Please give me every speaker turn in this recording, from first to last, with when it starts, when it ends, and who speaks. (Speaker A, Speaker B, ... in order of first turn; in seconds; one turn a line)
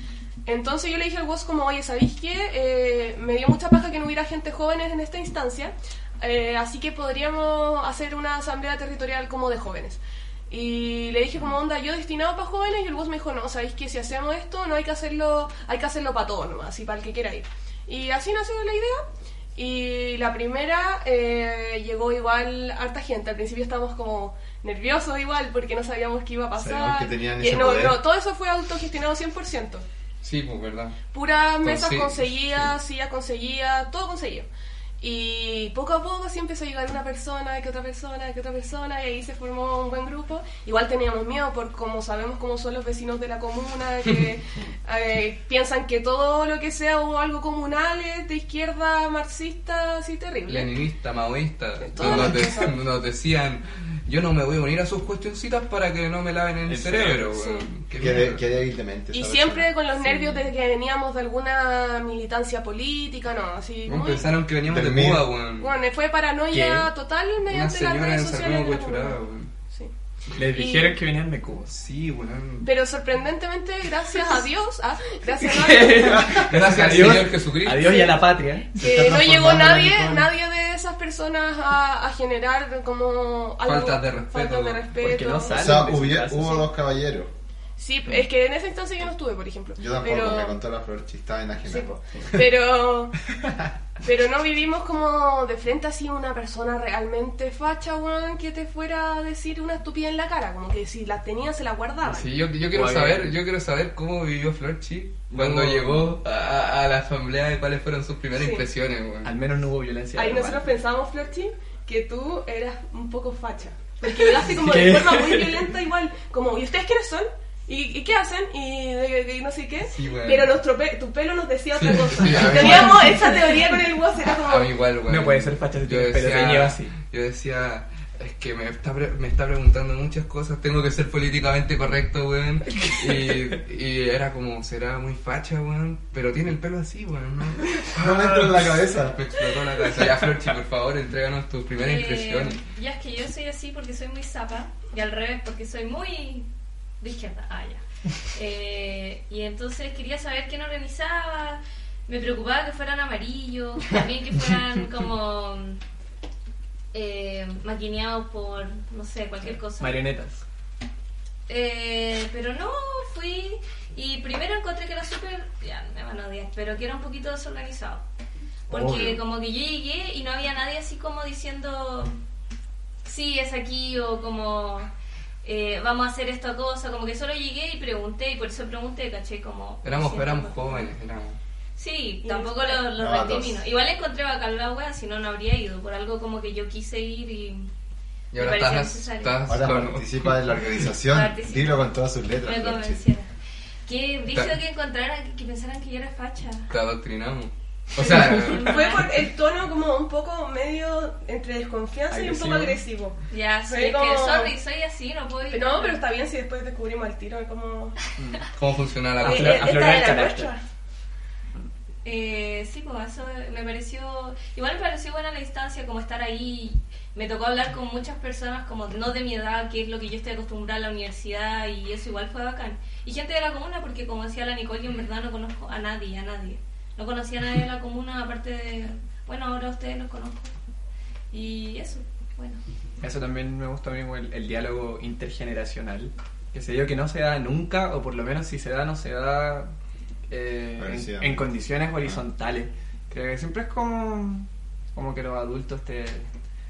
Speaker A: 0.5-19.0
Speaker A: 19.6-29.8
Speaker B: 26.6-28.0
Speaker C: 30.2-31.0
Speaker A: 31.1-34.5
Speaker C: 31.6-32.6
Speaker A: 35.0-50.7
Speaker C: 50.5-58.4
Speaker A: 51.8-52.7
Speaker D: 56.7-57.3
Speaker A: 57.3-57.7
Speaker B: 58.0-60.5
Speaker A: 59.1-64.3
Speaker C: 63.9-65.7
Speaker B: 64.7-65.3
Speaker A: 65.6-69.9
Speaker D: 66.5-66.9
Speaker C: 67.5-69.5
Speaker D: 70.4-71.7
Speaker A: 70.5-71.0
Speaker C: 71.7-72.7
Speaker A: 72.6-76.4
Speaker D: 75.4-78.7
Speaker C: 76.4-78.1
Speaker A: 77.8-78.1
Speaker A: 78.7-85.8
Speaker B: 78.8-80.3
Speaker C: 83.6-84.9
Speaker D: 85.0-86.7
Speaker B: 85.5-87.3
Speaker A: 87.8-90.6
Speaker B: 89.8-92.0
Speaker A: 91.7-93.2
Speaker A: 94.0-102.2
Speaker C: 102.0-109.3
Speaker D: 102.7-103.3
Speaker D: 105.3-106.2
Speaker A: 108.3-108.7
Speaker D: 109.2-110.6
Speaker A: 110.1-124.7
Speaker D: 114.0-115.7
Speaker C: 119.8-120.5
Speaker C: 121.7-123.6
Speaker D: 122.3-122.9
Speaker C: 124.4-142.6
Speaker D: 125.1-126.9
Speaker D: 132.8-133.4
Speaker B: 137.9-139.2
Speaker D: 139.9-140.5
Speaker E: 141.8-146.5
Speaker E: 147.0-147.8
Speaker E: 148.3-155.8
Speaker E: 156.9-160.0
Speaker D: 159.5-160.4
Speaker E: 161.5-168.0
Speaker E: 168.7-172.1
Speaker D: 168.7-169.2
Speaker E: 173.0-174.9
Speaker E: 175.4-180.9
Speaker C: 179.8-181.4
Speaker E: 181.8-187.7
Speaker A: 182.2-182.8
Speaker B: 183.0-183.6
Speaker E: 188.3-189.5
Speaker C: 188.3-190.8
Speaker B: 189.5-193.0
Speaker E: 191.0-191.9
Speaker E: 192.4-193.3
Speaker E: 193.8-196.7
Speaker C: 196.7-199.1
Speaker E: 198.0-199.1
Speaker A: 198.6-204.5
Speaker D: 202.1-202.8
Speaker E: 203.3-206.0
Speaker A: 205.5-207.9
Speaker C: 208.6-209.9
Speaker D: 209.2-210.5
Speaker A: 209.2-210.6
Speaker E: 212.0-230.5
Speaker E: 231.3-232.6
Speaker D: 233.0-239.7
Speaker D: 240.3-246.3
Speaker B: 240.8-241.5